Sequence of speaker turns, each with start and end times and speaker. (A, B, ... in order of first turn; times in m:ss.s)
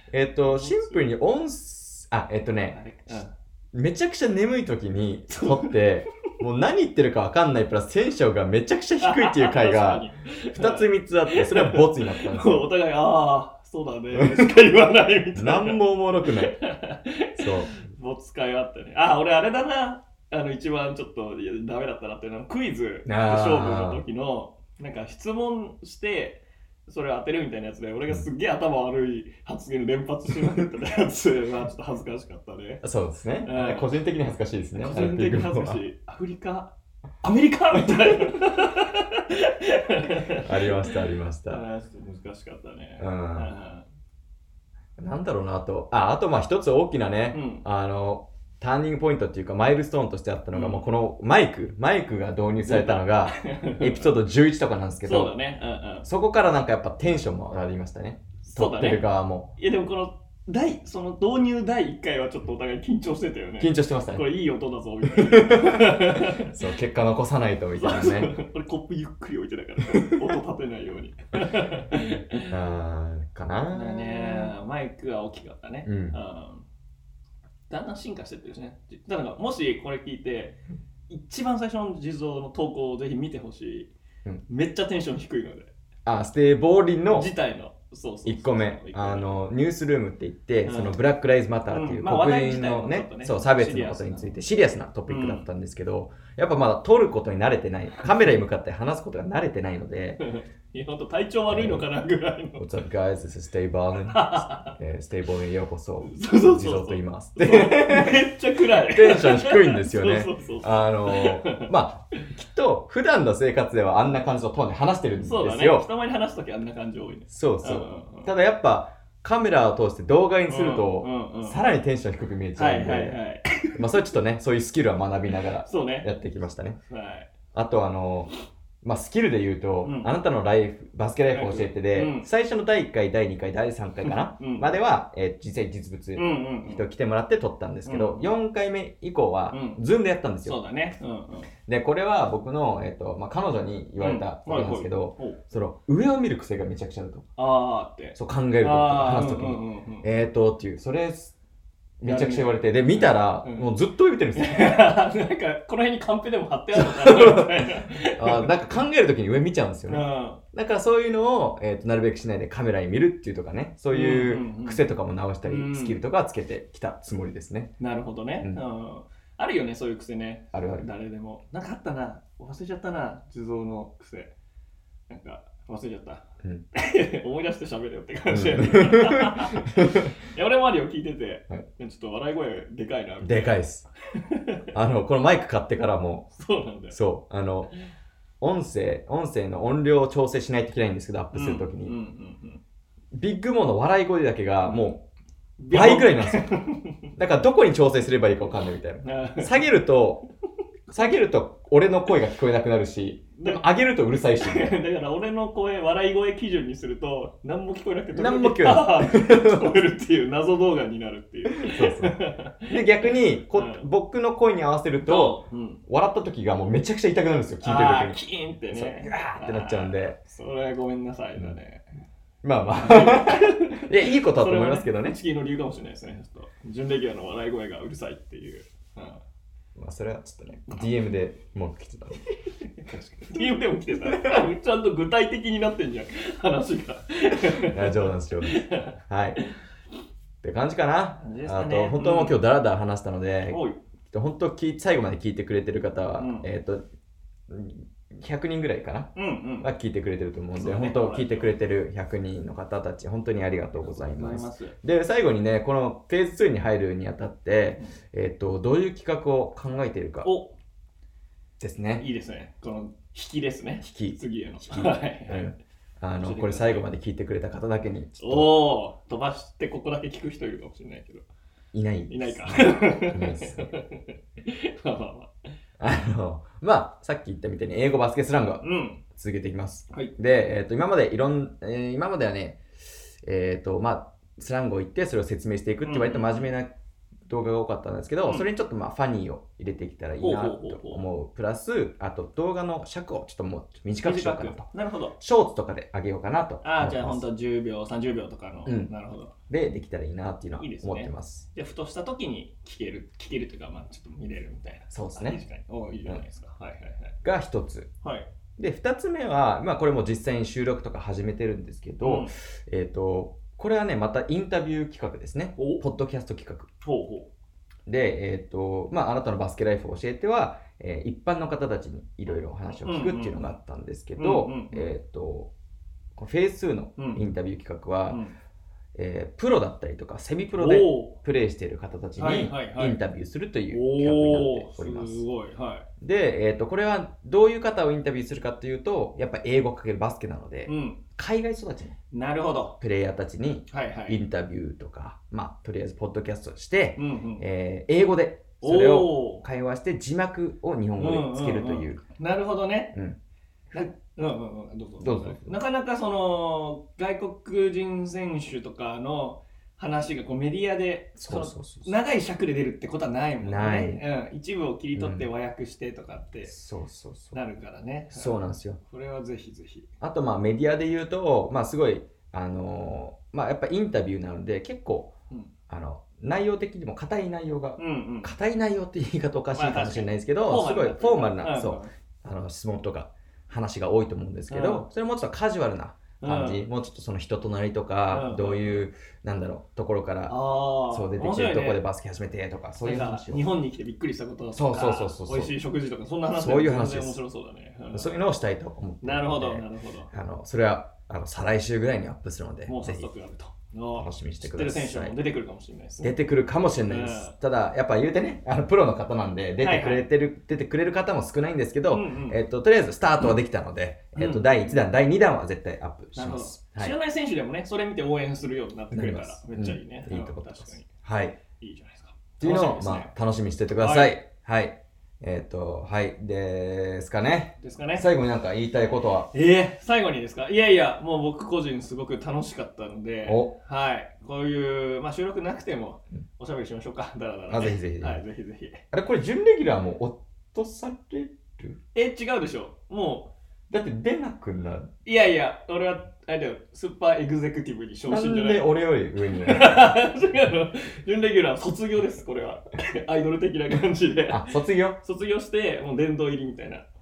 0:00.1-0:12.6 A
0:00.4-0:01.0 B
0:02.7-0:03.3 B
0:05.3-0:05.8 B
0:09.0-0:32.8 B
0:14.2-0:14.5 A
0:15.4-0:16.6 A
0:17.4-0:17.7 A
0:23.1-0:24.0 A
0:32.8-0:35.8 A
0:33.4-0:33.9 B
0:34.8-0:43.9 B
0:40.4-0:41.6 A
0:43.0-0:43.5 A
0:45.0-0:55.3 A
0:47.3-0:47.6 B
0:50.5-0:50.8 B
0:52.6-0:54.2 B
0:55.0-0:56.1 B
0:56.0-0:59.5 A
0:58.4-0:59.0 B
0:59.6-1:06.6 B
1:03.6-1:04.2 A
1:05.1-1:08.3 A
1:07.8-1:12.5 B
1:12.5-1:14.5 A
1:13.7-1:16.7 B
1:15.8-1:16.2 A
1:17.7-1:20.6 B
1:21.1-1:23.9 B
1:24.5-1:25.7 B
1:26.1-1:27.3 A
1:27.1-1:29.4 B
1:28.2-1:40.2 A
1:30.6-1:31.0 B
1:31.7-1:34.4 B
1:35.1-1:35.5 B
1:40.2-1:42.7 B
1:41.5-1:41.9 A
1:42.6-1:55.9 A
1:44.1-1:44.8 B
1:46.0-1:51.7 B
1:55.2-1:58.3 B
1:57.3-2:03.2 A
2:00.5-2:01.6 B
2:02.6-2:03.8 B
2:03.7-2:06.8 A
2:05.6-2:06.1 B
2:06.9-2:07.3 B
2:07.5-2:08.3 A
2:08.8-2:20.6 A
2:09.8-2:10.1 B
2:11.3-2:12.3 B
2:14.0-2:14.7 B
2:16.2-2:16.9 B
2:17.9-2:18.3 B
2:19.5-2:19.8 B
2:20.4-2:21.5 B
2:21.7-2:27.3 A
2:24.0-2:25.4 B
2:27.4-2:30.1 B
2:28.2-2:31.4 A
2:32.0-2:34.9 A
2:32.0-2:33.7 B
2:34.4-2:38.5 B
2:36.7-2:47.7 A
2:39.9-2:40.4 B
2:43.9-2:44.8 B
2:45.4-2:46.0 B
2:47.8-2:54.3 B
2:50.5-2:50.9 A
2:55.1-3:03.6 B
2:58.3-3:00.1 A
3:03.2-3:03.9 A
3:04.1-3:04.6 B
3:04.7-3:06.3 A
3:06.3-3:07.0 B
3:06.9-3:07.7 A
3:08.4-3:12.0 A
3:11.3-3:12.6 B
3:13.1-3:15.0 A
3:14.6-3:14.9 B
3:15.6-3:17.0 B
3:15.7-3:16.5 A
3:17.2-3:20.2 A
3:19.0-3:19.6 B
3:20.9-3:21.2 B
3:20.9-3:24.8 A
3:23.4-3:23.6 B
3:24.4-3:33.9 B
3:28.1-3:29.7 A
3:31.6-3:32.2 A
3:32.7-3:38.2 A
3:35.0-3:35.8 B
3:37.6-3:41.9 B
3:38.7-3:40.2 A
3:42.4-3:45.2 A
3:42.8-3:49.2 B
3:49.8-3:52.2 A
3:52.7-3:59.5 B
3:54.1-3:54.5 A
3:57.7-3:59.4 A
4:00.4-4:06.8 A
4:01.2-4:02.4 B
4:03.5-4:03.8 B
4:06.2-4:06.5 B
4:07.5-4:20.3 A
4:09.2-4:09.7 B
4:10.6-4:11.5 B
4:13.8-4:14.8 B
4:20.2-4:20.5 B
4:21.6-4:22.0 A
4:22.0-4:25.6 B
4:23.8-4:28.6 A
4:26.2-4:26.9 B
4:28.2-4:31.2 B
4:31.7-4:33.7 A
4:32.1-4:35.3 B
4:35.8-4:42.6 A
4:38.6-4:39.0 B
4:43.2-4:46.7 A
4:45.8-4:46.5 B
4:47.3-4:54.7 A
4:50.2-4:51.1 B
4:54.0-4:55.2 B
4:55.2-4:57.2 A
4:56.6-4:59.4 B
4:58.7-4:58.9 A
4:59.5-5:01.5 A
5:00.6-5:07.2 B
5:04.9-5:05.4 A
5:07.2-5:07.9 A
5:08.0-5:08.3 B
5:08.6-5:16.7 A
5:12.0-5:12.3 B
5:15.6-5:15.8 B
5:16.8-5:17.3 B
5:17.9-5:25.5 A
5:22.8-5:23.5 B
5:24.2-5:24.9 B
5:26.2-5:28.2 A
5:27.0-5:27.2 B
5:28.1-5:28.4 B
5:29.0-5:35.2 A
5:30.6-5:31.2 B
5:32.2-5:33.0 B
5:33.7-5:35.9 B
5:36.0-5:42.0 A
5:40.7-5:41.0 B
5:42.1-5:42.8 B
5:42.8-5:52.0 A
5:43.7-5:44.2 B
5:47.0-5:47.4 B
5:48.6-5:49.4 B
5:51.0-5:53.0 B
5:52.9-5:53.2 A
5:53.7-6:06.5 B
5:55.0-5:55.6 A
6:01.2-6:02.0 A
6:03.4-6:04.0 A
6:05.0-6:05.3 A
6:06.5-6:07.4 A
6:07.3-6:09.9 B
6:08.1-6:08.8 A
6:10.0-6:15.1 A
6:15.7-6:30.4 A
6:17.8-6:18.3 B
6:19.5-6:21.9 B
6:24.5-6:24.9 B
6:26.2-6:26.6 B
6:28.1-6:28.8 B
6:30.3-6:31.8 B
6:30.9-6:33.5 A
6:32.8-6:38.2 B
6:34.6-6:35.5 A
6:36.3-6:37.2 A
6:37.9-6:43.1 A
6:39.0-6:40.1 B
6:42.7-6:46.2 B
6:44.0-6:45.2 A
6:46.0-6:57.0 A
6:46.9-6:47.4 B
6:49.6-6:50.0 B
6:51.9-6:52.4 B
6:54.2-6:54.8 B
6:56.2-7:00.9 B
6:58.9-7:01.4 A
7:01.5-7:03.1 B
7:02.4-7:09.3 A
7:03.8-7:04.2 B
7:07.6-7:08.1 B
7:09.3-7:18.8 B
7:13.2-7:13.5 A
7:17.5-7:18.2 A
7:18.9-7:21.8 A
7:21.9-7:23.3 B
7:23.7-7:24.9 A
7:25.0-7:28.7 B
7:28.1-7:29.9 A
7:29.3-7:36.8 B
7:34.3-7:35.0 A